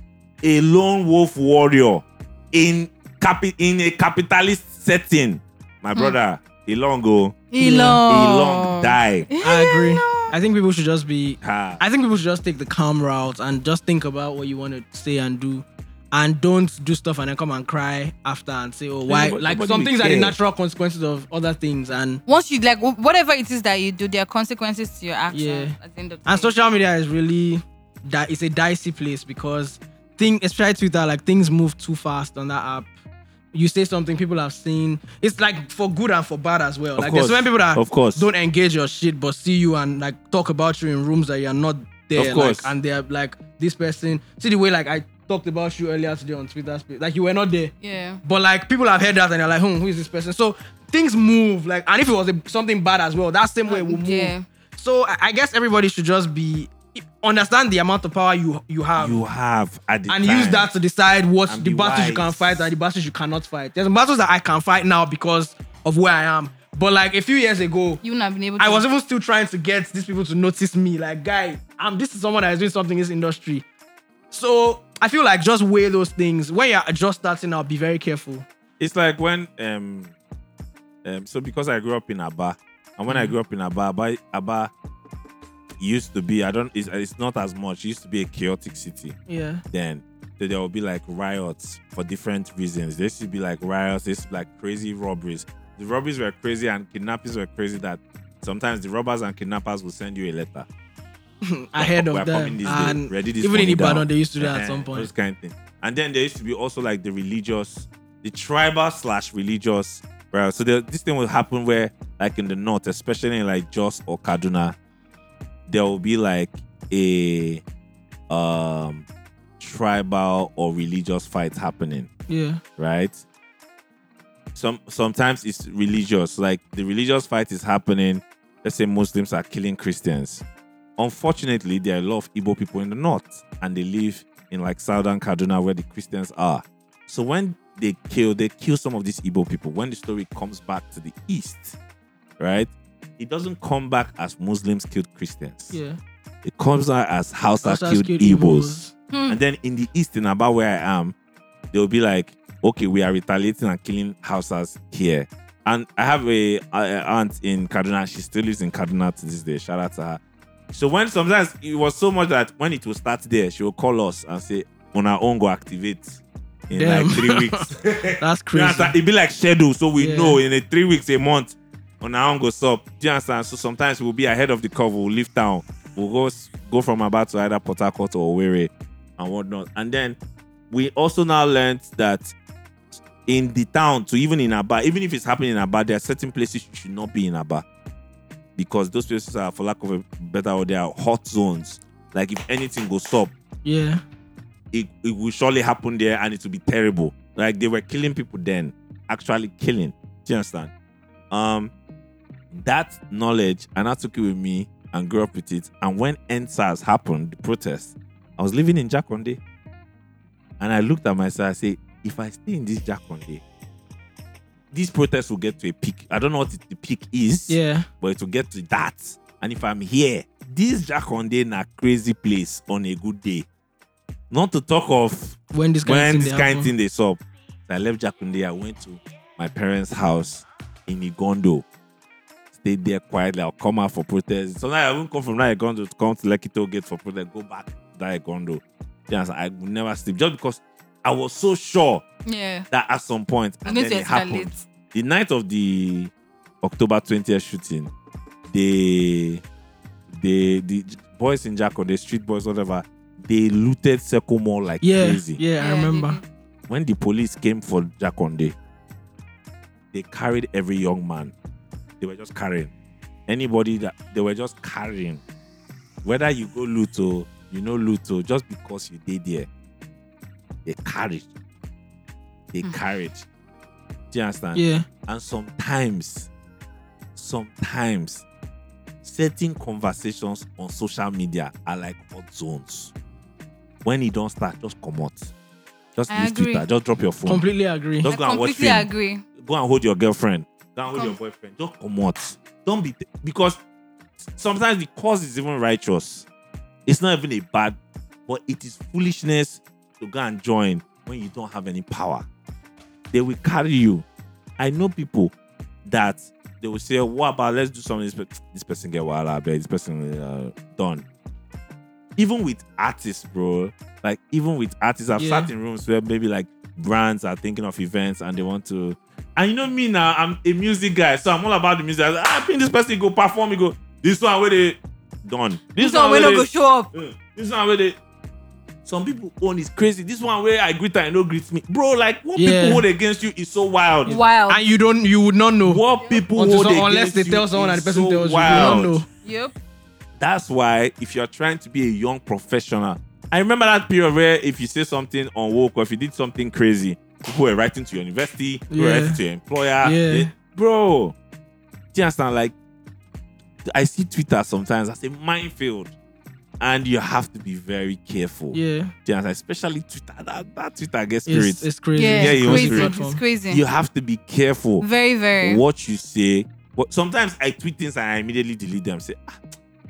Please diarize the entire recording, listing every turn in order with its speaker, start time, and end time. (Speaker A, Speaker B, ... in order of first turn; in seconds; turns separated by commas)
Speaker A: 0.4-7.5, Speaker B: 7.5-10.3, Speaker C: 7.6-8.0, Speaker A: 8.1-9.3, Speaker C: 9.4-22.2, Speaker A: 11.4-11.8, Speaker A: 19.1-20.4, Speaker B: 22.3-26.5, Speaker C: 25.3-25.7, Speaker C: 26.3-32.9, Speaker C: 33.5-47.7, Speaker A: 37.0-38.3, Speaker A: 42.2-42.7, Speaker B: 47.8-48.2, Speaker C: 48.2-59.2, Speaker B: 53.7-54.5, Speaker A: 59.0-60.7, Speaker C: 60.1-68.0, Speaker A: 61.5-62.7, Speaker B: 68.0-68.8, Speaker C: 68.6-73.7, Speaker C: 74.3-78.5, Speaker A: 78.8-80.1, Speaker A: 81.0-84.7, Speaker A: 85.8-89.2, Speaker C: 89.3-89.6, Speaker A: 89.7-100.7, Speaker C: 101.4-105.1, Speaker A: 101.8-114.8, Speaker A: 115.7-117.6, Speaker A: 118.3-119.1, Speaker A: 119.6-122.1, Speaker C: 122.3-122.6, Speaker A: 122.8-123.2, Speaker A: 124.5-130.4, Speaker A: 131.0-141.8, Speaker A: 142.4-145.8, Speaker C: 145.7-146.0, Speaker A: 146.4-148.8, Speaker C: 147.6-148.9, Speaker B: 149.1-149.4, Speaker A: 149.3-151.2, Speaker A: 151.7-160.2, Speaker A: 160.7-180.2, Speaker C: 166.8-168.9, Speaker C: 170.0-170.4, Speaker A: 180.7-182.3, Speaker A: 182.9-187.7, Speaker A: 188.6-193.3, Speaker C: 193.7-194.0, Speaker A: 194.7-200.7, Speaker A: 201.3-201.7, Speaker A: 202.5-209.4, Speaker A: 210.6-213.4, Speaker A: 214.7-223.5, Speaker C: 217.5-217.9, Speaker A: 224.3-231.7, Speaker C: 225.5-226.7, Speaker A: 232.5-242.0, Speaker B: 242.3-242.7, Speaker A: 242.7-247.9, Speaker B: 243.7-244.6, Speaker A: 248.5-249.4, Speaker A: 250.1-255.4, Speaker C: 254.8-256.2, Speaker B: 255.6-256.2, Speaker A: 256.7-258.6, Speaker A: 259.9-261.3, Speaker A: 262.0-262.7, Speaker A: 263.3-265.2, Speaker A: 266.0-269.5, Speaker A: 270.6-271.3, Speaker A: 272.5-273.3, Speaker A: 274.1-276.3, Speaker C: 274.5-274.9, Speaker A: 277.1-278.3, Speaker A: 279.0-282.9, Speaker A: 283.9-285.3, Speaker A: 286.0-287.4, Speaker B: 286.1-286.6, Speaker C: 287.3-288.1, Speaker A: 288.0-293.6, Speaker B: 288.1-289.2, Speaker A: 294.2-296.3, Speaker A: 296.9-302.2, Speaker A: 303.1-304.1, Speaker A: 304.6-305.3, Speaker A: 305.9-311.1, Speaker A: 312.2-328.0, Speaker C: 315.2-315.5, Speaker B: 325.8-326.9, Speaker A: 328.9-334.2, Speaker C: 332.4-332.8, Speaker B: 334.1-334.6, Speaker C: 334.1-335.8, Speaker A: 335.6-339.0, Speaker B: 336.0-336.3, Speaker C: 336.4-339.1, Speaker B: 338.5-339.5, Speaker A: 340.2-351.2, Speaker C: 348.7-349.2, Speaker C: 349.8-350.3, Speaker A: 351.9-352.6, Speaker A: 353.7-355.9, Speaker A: 356.6-362.9, Speaker C: 358.5-358.9, Speaker C: 361.3-363.2, Speaker B: 361.9-363.6, Speaker A: 363.5-364.9, Speaker B: 364.8-365.6, Speaker A: 365.4-369.6